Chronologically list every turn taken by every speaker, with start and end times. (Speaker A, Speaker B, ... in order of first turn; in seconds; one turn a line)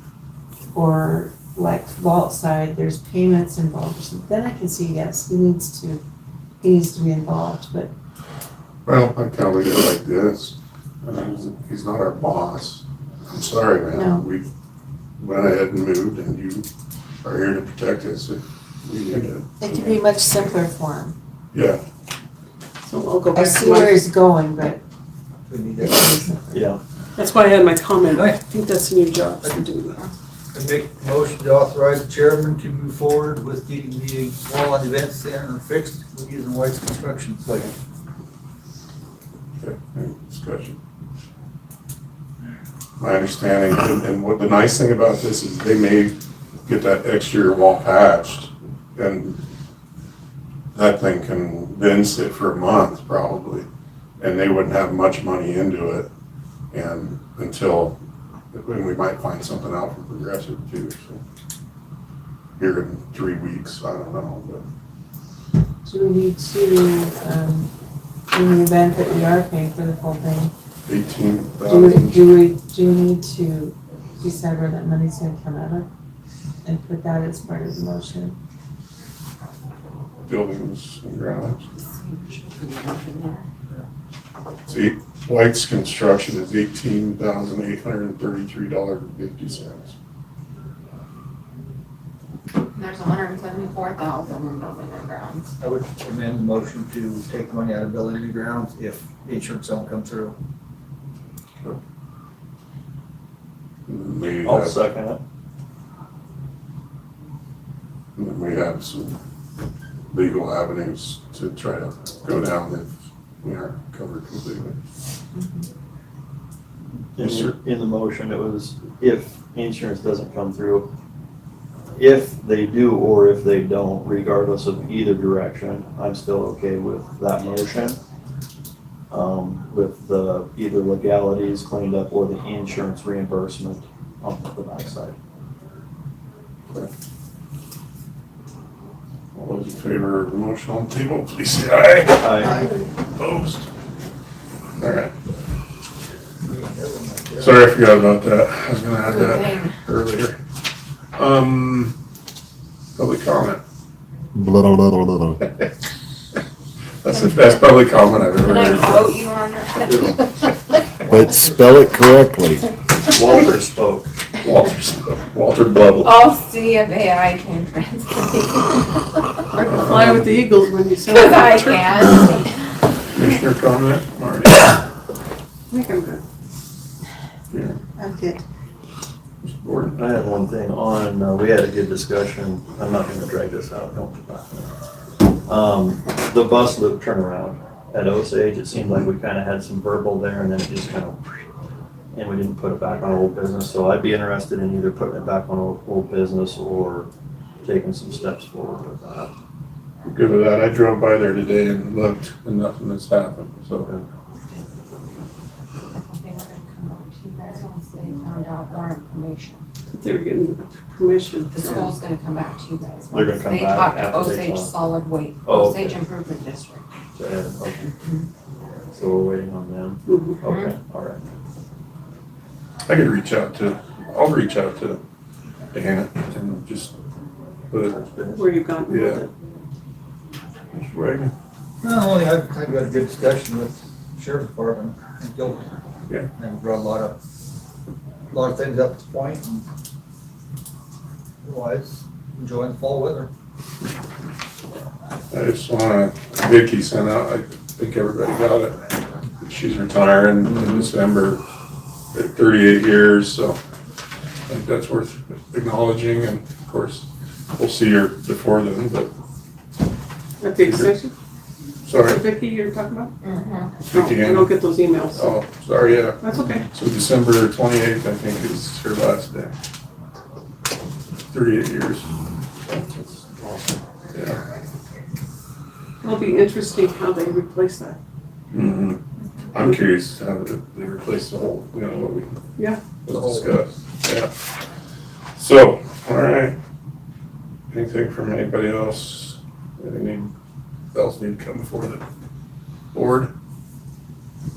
Speaker A: 0.7-6.0
Speaker A: 6.6-7.9
Speaker B: 8.9-14.5
Speaker A: 13.9-14.3
Speaker B: 15.2-16.7
Speaker B: 17.2-19.6
Speaker A: 19.6-21.2
Speaker B: 21.5-21.8
Speaker C: 22.9-24.0
Speaker A: 23.3-24.8
Speaker D: 25.5-26.1
Speaker A: 25.8-26.7
Speaker E: 26.5-26.8
Speaker C: 27.2-30.0
Speaker D: 28.1-28.4
Speaker D: 30.5-37.7
Speaker B: 39.6-40.8
Speaker B: 43.0-49.4
Speaker B: 50.7-53.7
Speaker B: 54.2-56.1
Speaker B: 56.7-58.0
Speaker B: 58.5-61.2
Speaker B: 62.6-64.6
Speaker A: 65.8-67.7
Speaker A: 68.3-70.5
Speaker B: 70.9-72.3
Speaker A: 71.7-75.9
Speaker A: 76.6-78.4
Speaker B: 80.3-81.7
Speaker F: 81.8-83.4
Speaker B: 84.7-90.0
Speaker F: 92.7-95.5
Speaker D: 95.6-100.4
Speaker B: 103.9-104.8
Speaker E: 104.5-105.2
Speaker B: 108.2-109.2
Speaker B: 110.1-114.8
Speaker A: 115.3-115.7
Speaker E: 117.2-120.9
Speaker B: 117.2-117.5
Speaker E: 122.0-128.0
Speaker E: 129.1-135.2
Speaker B: 139.3-142.5
Speaker E: 142.2-142.7
Speaker C: 142.5-142.9
Speaker B: 143.1-143.7
Speaker B: 144.8-145.1
Speaker D: 146.4-147.7
Speaker B: 147.4-150.4
Speaker F: 149.0-149.8
Speaker B: 151.2-151.9
Speaker B: 153.0-153.6
Speaker G: 154.3-155.4
Speaker B: 157.0-159.1
Speaker F: 158.3-160.8
Speaker E: 159.9-160.2
Speaker G: 161.1-162.6
Speaker E: 163.1-164.1
Speaker B: 164.4-166.2
Speaker F: 166.0-169.5
Speaker C: 169.5-172.4
Speaker B: 169.7-170.3
Speaker F: 171.1-172.8
Speaker B: 173.1-174.8
Speaker C: 175.7-176.2
Speaker B: 177.5-177.8
Speaker A: 178.0-178.4
Speaker B: 179.4-180.0
Speaker E: 180.0-184.7
Speaker E: 185.4-191.4
Speaker E: 192.1-197.1
Speaker E: 197.6-199.3
Speaker B: 200.1-203.9
Speaker F: 205.9-209.7
Speaker C: 209.9-211.9
Speaker F: 211.5-216.8
Speaker E: 213.1-214.8
Speaker E: 215.4-216.0
Speaker E: 217.2-217.9
Speaker F: 218.0-218.3
Speaker E: 218.9-221.4
Speaker C: 220.1-220.4
Speaker F: 220.4-220.7
Speaker B: 222.9-225.0
Speaker B: 225.7-226.9
Speaker B: 227.7-228.0
Speaker E: 228.0-228.4
Speaker C: 228.3-229.3
Speaker B: 228.9-229.2
Speaker B: 230.7-231.3
Speaker D: 231.8-235.7
Speaker D: 236.3-237.2
Speaker D: 238.3-239.7
Speaker D: 241.4-243.3
Speaker B: 245.3-248.8
Speaker B: 249.4-251.4
Speaker B: 252.1-253.6
Speaker B: 254.5-259.1
Speaker C: 260.4-261.1
Speaker B: 260.6-260.9
Speaker B: 261.9-262.2
Speaker C: 262.0-263.1
Speaker F: 263.2-263.8
Speaker B: 263.9-264.5
Speaker C: 263.9-265.3
Speaker B: 265.1-269.6
Speaker C: 266.2-266.7
Speaker B: 271.3-272.1
Speaker E: 272.7-273.8
Speaker B: 274.1-274.4
Speaker C: 276.0-278.0
Speaker B: 278.5-279.0
Speaker B: 279.5-282.4
Speaker B: 283.1-284.3
Speaker D: 283.1-283.6
Speaker B: 285.4-286.6
Speaker B: 287.7-290.3
Speaker B: 290.9-292.0
Speaker B: 292.9-293.3